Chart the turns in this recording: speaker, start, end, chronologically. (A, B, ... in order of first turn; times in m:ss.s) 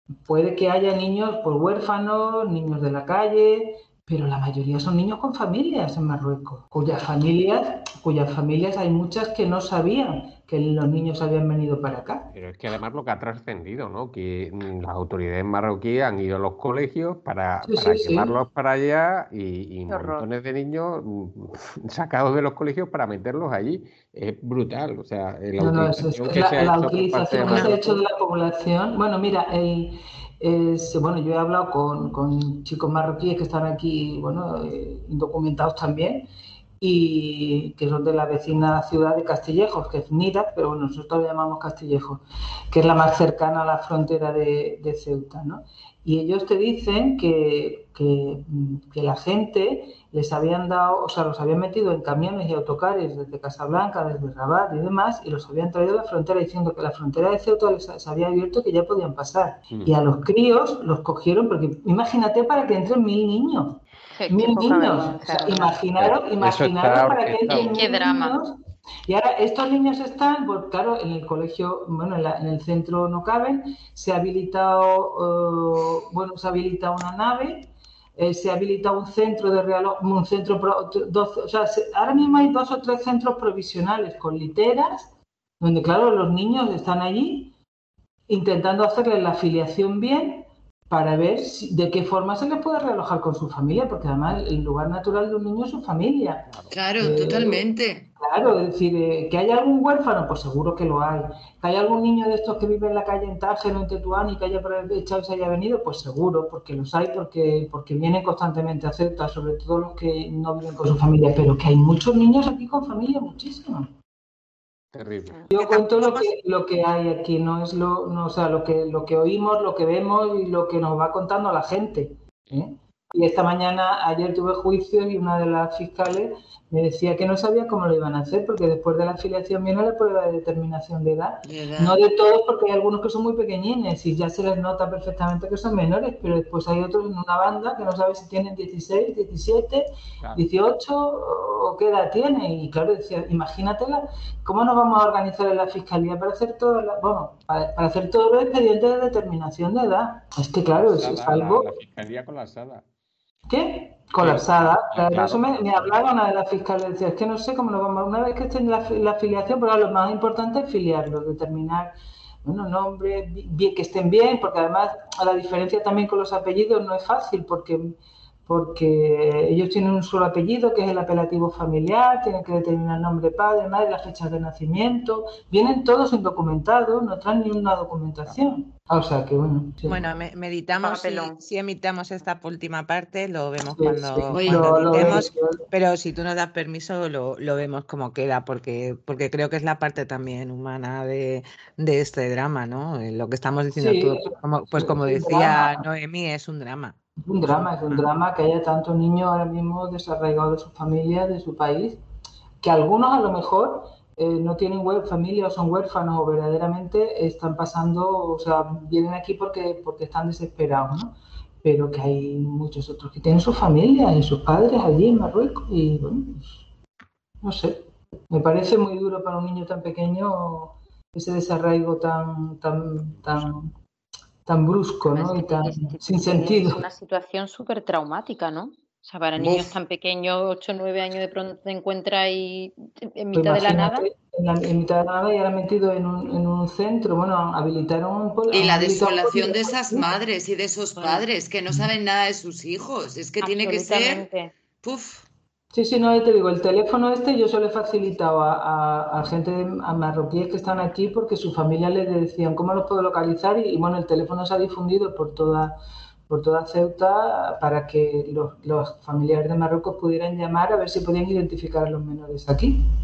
0:00.3-0:12.3 A
0:12.3-0:27.8 B
0:17.6-0:18.4 A
0:19.9-0:20.3 C
0:25.6-0:36.3 A
0:27.4-0:27.8 D
0:36.8-1:08.6 A
0:59.7-1:00.0 B
1:04.1-1:05.8 C
1:06.0-1:07.9 B
1:07.5-1:08.4 C
1:09.1-1:27.5 A
1:28.3-1:36.5 A
1:36.5-1:36.8 B
1:36.7-1:38.1 E
1:37.0-1:37.6 A
1:38.2-1:53.9 A
1:54.9-1:55.5 B
1:55.5-2:31.7 A
2:11.4-2:12.1 E
2:20.2-2:20.5 B
2:30.7-2:32.8 B
2:33.5-2:41.9 A
2:34.2-2:36.0 B
2:42.4-2:47.9 A
2:48.5-3:00.0 A
2:59.8-3:18.0 D
3:00.8-3:01.4 C
3:03.8-3:05.6 A
3:04.3-3:05.2 C
3:04.4-3:05.1 E
3:13.7-3:15.8 A
3:17.2-3:22.0 A
3:22.6-3:36.7 A
3:37.4-3:43.7 A
3:44.5-3:46.9 A
3:45.0-3:54.1 C
3:49.4-3:49.7 E
3:53.3-4:00.1 A
3:58.5-4:04.3 E
4:01.0-4:01.3 C
4:03.4-4:04.5 C
4:04.8-4:05.3 E
4:05.7-4:15.8 A
4:16.3-4:22.8 A